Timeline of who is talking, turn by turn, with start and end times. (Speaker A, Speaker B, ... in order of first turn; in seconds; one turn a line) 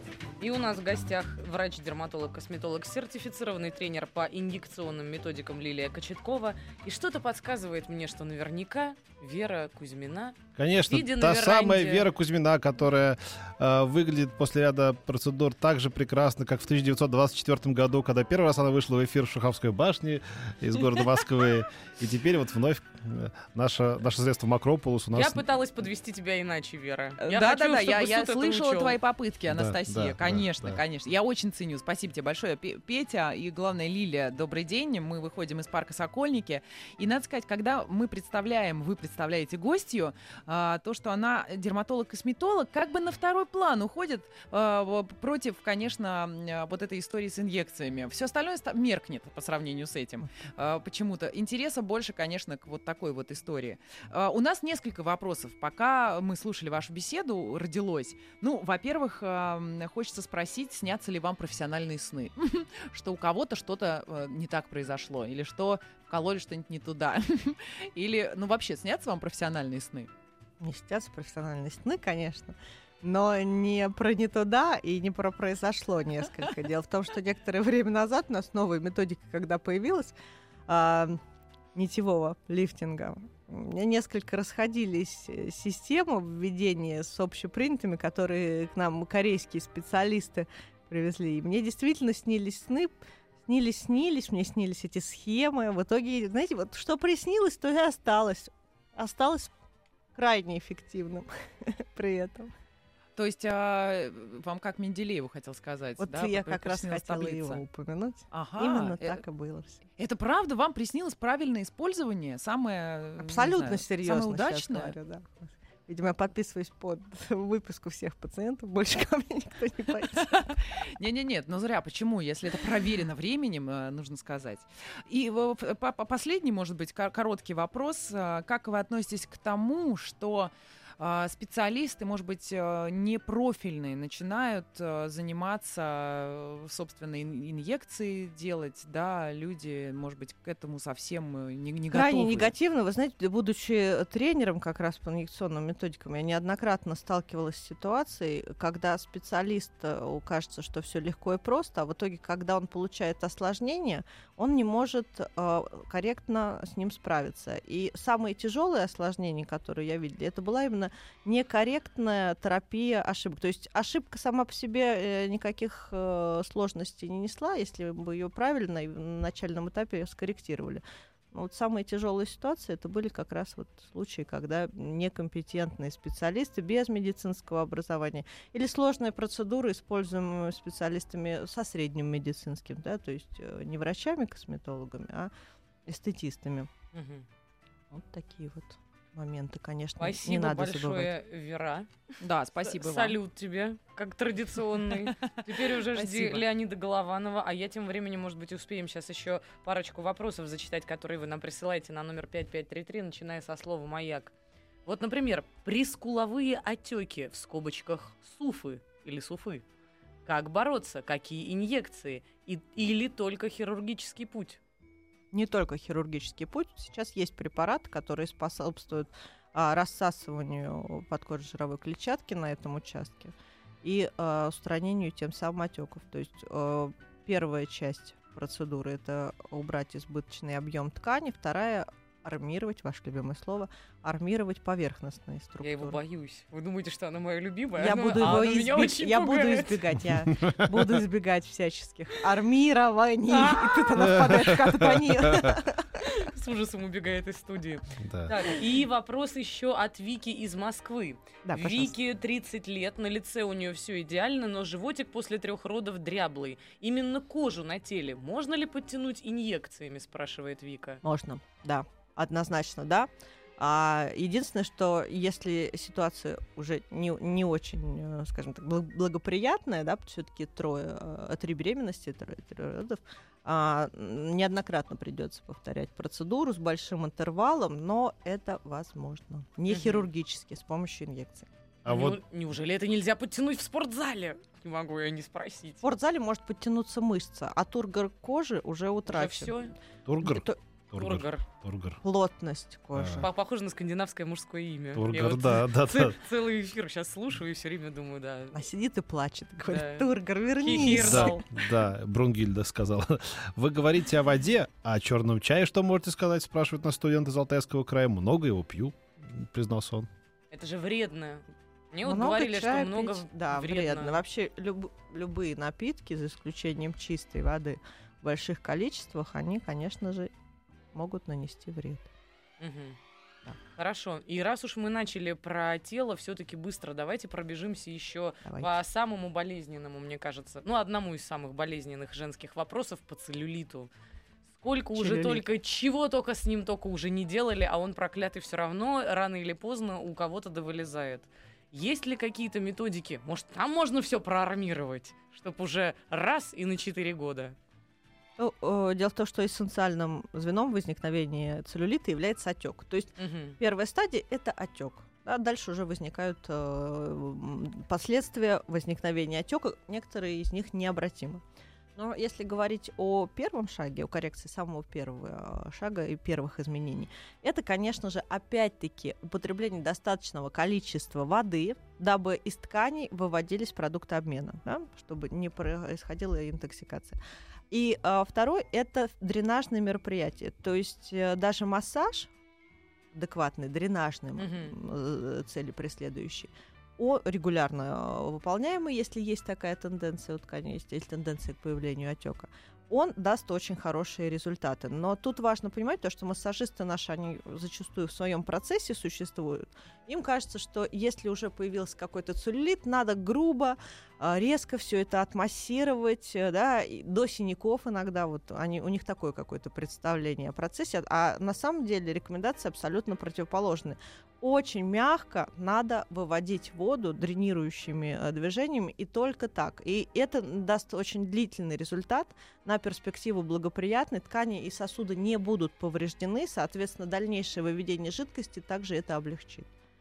Speaker A: 0.4-12.1
Speaker B: 10.6-25.4
Speaker A: 25.1-28.9
Speaker C: 27.2-70.1
Speaker B: 29.5-30.8
Speaker D: 70.6-80.1
Speaker D: 80.7-81.2
Speaker D: 81.7-92.9
Speaker D: 93.5-99.5
Speaker D: 100.2-102.5
Speaker C: 103.2-107.6
Speaker D: 106.0-109.8
Speaker C: 108.3-109.2
Speaker C: 110.0-114.9
Speaker D: 113.2-120.5
Speaker C: 120.2-142.5
Speaker D: 141.9-185.3
Speaker D: 185.9-186.7
Speaker A: 186.9-187.2
Speaker D: 187.9-191.1
Speaker A: 190.0-191.9
Speaker C: 192.2-193.2
Speaker A: 192.6-204.3
Speaker C: 195.9-196.4
Speaker A: 204.8-209.6
Speaker A: 210.2-214.6
Speaker D: 215.3-236.0
Speaker A: 235.6-239.7
Speaker D: 237.8-246.1
Speaker B: 240.4-240.8
Speaker A: 243.3-243.8
Speaker B: 243.9-245.6
Speaker A: 246.0-261.0
Speaker B: 248.0-248.3
Speaker D: 251.4-251.9
Speaker D: 261.0-281.5
Speaker A: 279.7-280.1
Speaker B: 281.8-282.2
Speaker A: 281.9-285.8
Speaker D: 285.8-289.6
Speaker A: 289.1-289.7
Speaker B: 290.1-292.0
Speaker D: 290.2-290.6
Speaker A: 290.9-291.4
Speaker D: 292.0-293.3
Speaker B: 292.9-293.2
Speaker A: 293.2-298.6
Speaker B: 294.9-296.2
Speaker D: 298.5-301.5
Speaker A: 299.7-300.1
Speaker A: 300.6-301.4
Speaker B: 301.0-310.1
Speaker A: 310.5-314.2
Speaker D: 312.0-320.3
Speaker D: 320.9-322.1
Speaker A: 322.6-323.0
Speaker A: 323.8-333.9
Speaker D: 328.4-328.7
Speaker A: 334.6-347.6
Speaker D: 335.0-335.4
Speaker D: 348.4-361.4
Speaker A: 353.2-353.6
Speaker D: 361.9-377.2
Speaker D: 377.7-382.3
Speaker D: 383.1-429.7
Speaker A: 384.4-384.7